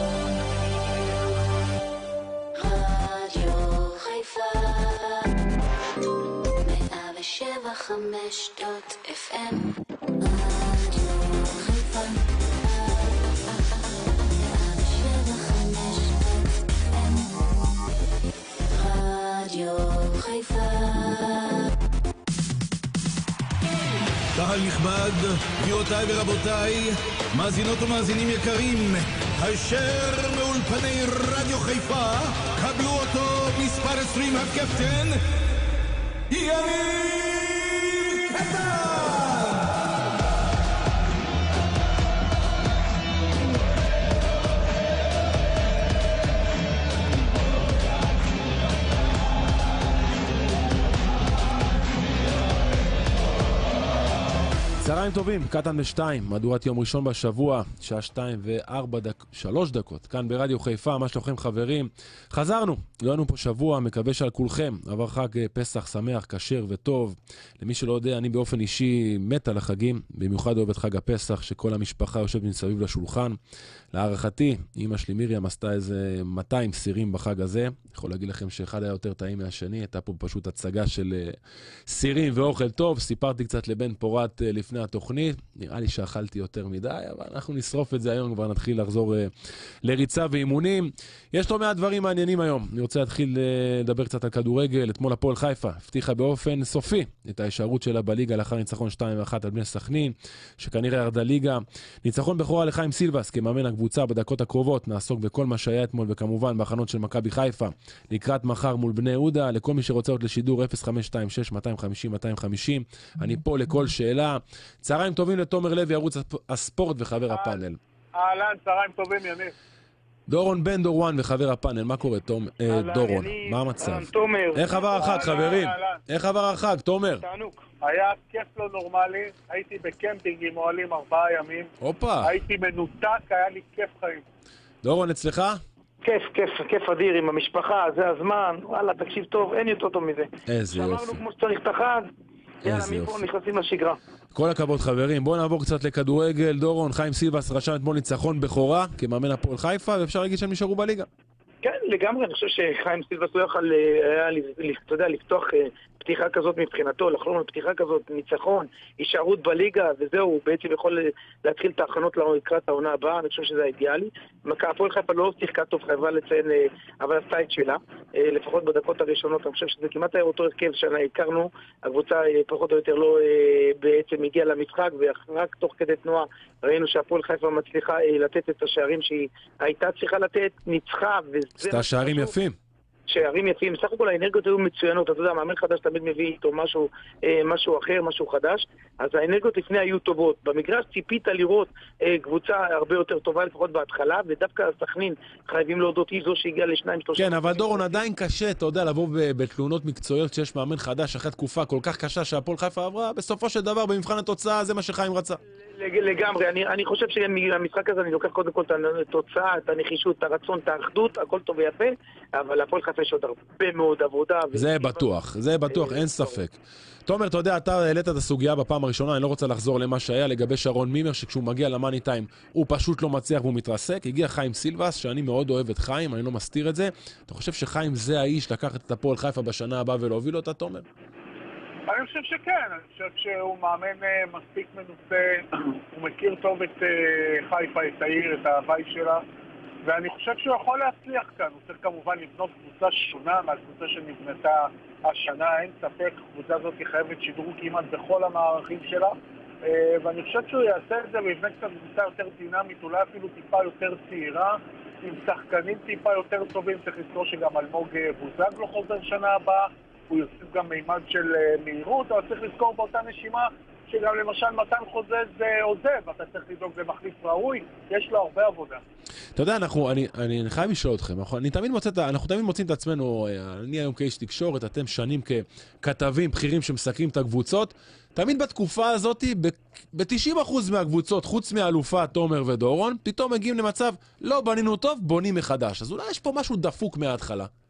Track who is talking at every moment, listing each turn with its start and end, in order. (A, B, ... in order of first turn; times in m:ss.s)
0:02.6-0:05.3 A
0:06.6-0:17.4 A
0:18.7-0:21.6 A
0:24.4-0:35.2 B
0:36.3-0:39.8 B
0:54.8-1:13.4 C
1:13.9-1:21.4 C
1:21.9-1:29.3 C
1:29.8-1:57.8 C
1:57.3-1:57.6 D
1:58.2-1:59.5 D
2:00.3-2:07.2 C
2:02.7-2:05.2 E
2:04.7-2:06.0 D
2:07.2-2:07.6 E
2:07.8-2:14.2 D
2:11.8-2:12.4 C
2:14.8-2:15.6 C
2:16.0-2:22.0 E
2:20.5-2:21.2 C
2:22.6-2:24.0 E
2:22.6-2:23.3 C
2:24.3-2:31.1 C
2:31.6-3:02.3 E
3:01.6-3:02.6 C
3:03.1-3:18.0 E
3:17.2-3:25.4 C
3:25.7-3:35.1 E
3:34.5-3:50.9 C
3:35.7-3:36.4 E
3:51.9-3:59.2 D
3:59.8-4:28.8 D
4:29.4-4:47.5 C